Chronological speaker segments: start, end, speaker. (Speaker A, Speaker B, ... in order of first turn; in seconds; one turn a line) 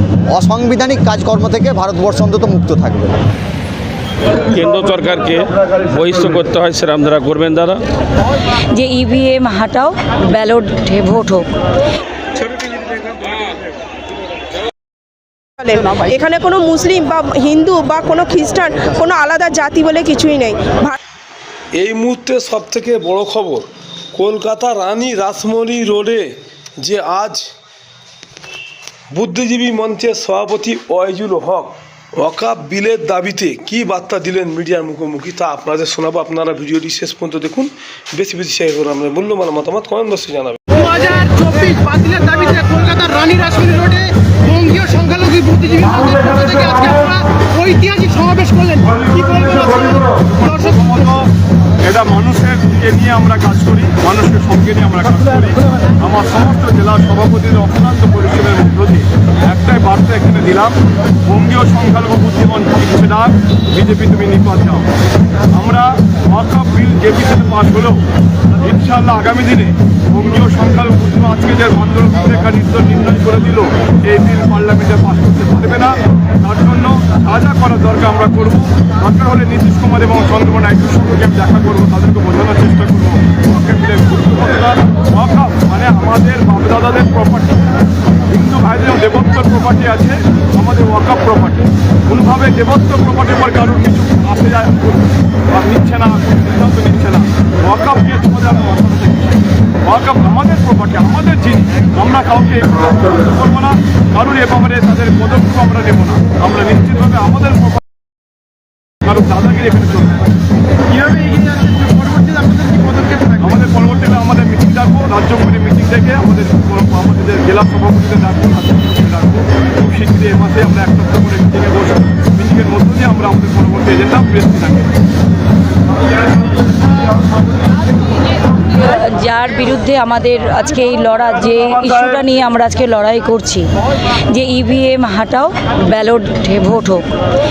Speaker A: 0.3-3.1
Speaker B: 4.4-7.8
Speaker C: 8.7-11.5
Speaker D: 15.6-20.9
Speaker E: 21.8-27.5
Speaker E: 29.1-40.6
Speaker F: 40.9-49.2
Speaker G: 49.1-64.9
Speaker G: 65.5-68.0
Speaker G: 68.6-87.6
Speaker G: 88.3-107.8
Speaker G: 109.0-110.2
Speaker G: 113.3-124.9
Speaker C: 128.7-133.7
Speaker C: 134.2-137.0